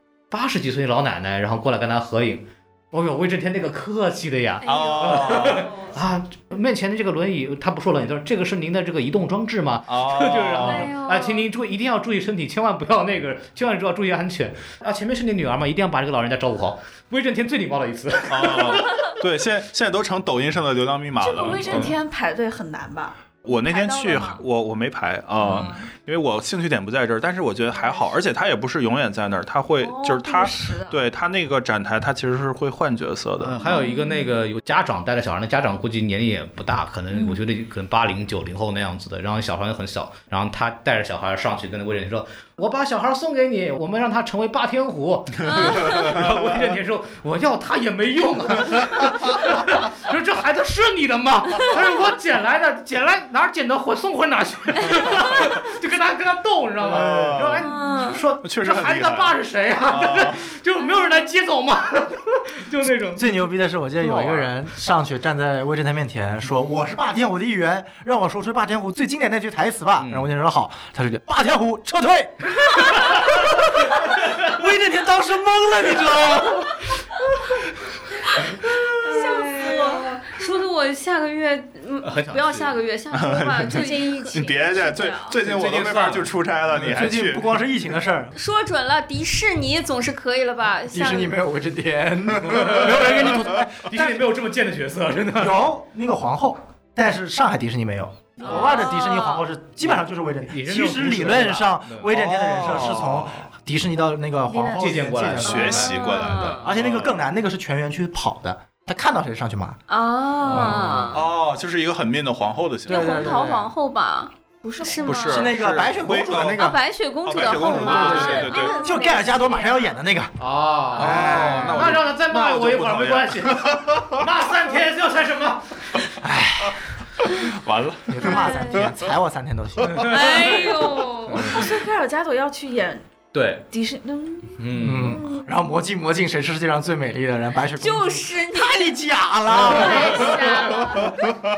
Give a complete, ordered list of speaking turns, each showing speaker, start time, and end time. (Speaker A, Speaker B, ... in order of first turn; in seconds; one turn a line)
Speaker A: 0.3-19.1
Speaker B: 4.6-5.7
Speaker C: 4.6-5.7
Speaker D: 5.6-5.9
Speaker C: 9.9-10.9
Speaker B: 10.7-11.1
Speaker D: 10.7-11.4
Speaker C: 18.3-21.9
Speaker B: 21.2-24.4
Speaker A: 21.5-21.9
Speaker C: 23.4-33.6
Speaker B: 25.4-25.9
Speaker B: 29.8-31.0
Speaker A: 33.4-63.3
Speaker B: 33.6-34.3
Speaker B: 37.1-37.4
Speaker D: 45.4-46.1
Speaker C: 45.5-46.4
Speaker C: 56.9-57.6
Speaker D: 57.6-58.2
Speaker C: 58.4-59.3
Speaker C: 59.9-60.4
Speaker E: 63.1-76.9
Speaker A: 64.0-64.5
Speaker A: 70.0-70.3
Speaker D: 79.0-84.5
Speaker B: 79.0-80.3
Speaker A: 82.0-82.7
Speaker C: 83.1-87.5
Speaker B: 83.7-85.4
Speaker A: 85.4-87.0
Speaker E: 86.8-88.3
Speaker D: 88.3-91.4
Speaker E: 90.9-94.2
Speaker A: 92.4-95.6
Speaker E: 95.4-109.8
Speaker B: 98.4-98.7
Speaker D: 98.4-99.5
Speaker A: 100.5-102.1
Speaker C: 102.1-103.4
Speaker B: 104.5-105.7
Speaker A: 104.7-106.0
Speaker C: 105.4-107.2
Speaker D: 105.7-106.7
Speaker D: 109.9-111.2
Speaker E: 110.5-110.8
Speaker C: 110.5-113.3
Speaker D: 112.8-115.6
Speaker E: 112.9-113.6
Speaker B: 114.6-115.4
Speaker C: 115.0-116.7
Speaker E: 115.3-116.8
Speaker D: 116.5-118.9
Speaker C: 117.2-118.8
Speaker E: 117.5-120.3
Speaker A: 117.9-118.1
Speaker B: 117.9-120.0
Speaker A: 120.4-126.0
Speaker E: 121.0-121.7
Speaker C: 121.0-124.2
Speaker E: 126.2-126.8
Speaker C: 127.3-129.1
Speaker E: 128.1-130.1
Speaker B: 128.2-128.8
Speaker A: 129.8-130.5
Speaker D: 130.0-131.6
Speaker A: 131.3-131.7
Speaker B: 131.4-133.1
Speaker A: 133.3-133.6
Speaker B: 133.7-135.5
Speaker A: 134.6-135.2
Speaker E: 134.8-140.4
Speaker D: 137.8-138.9
Speaker A: 139.5-139.9
Speaker B: 139.7-141.1
Speaker D: 139.8-141.1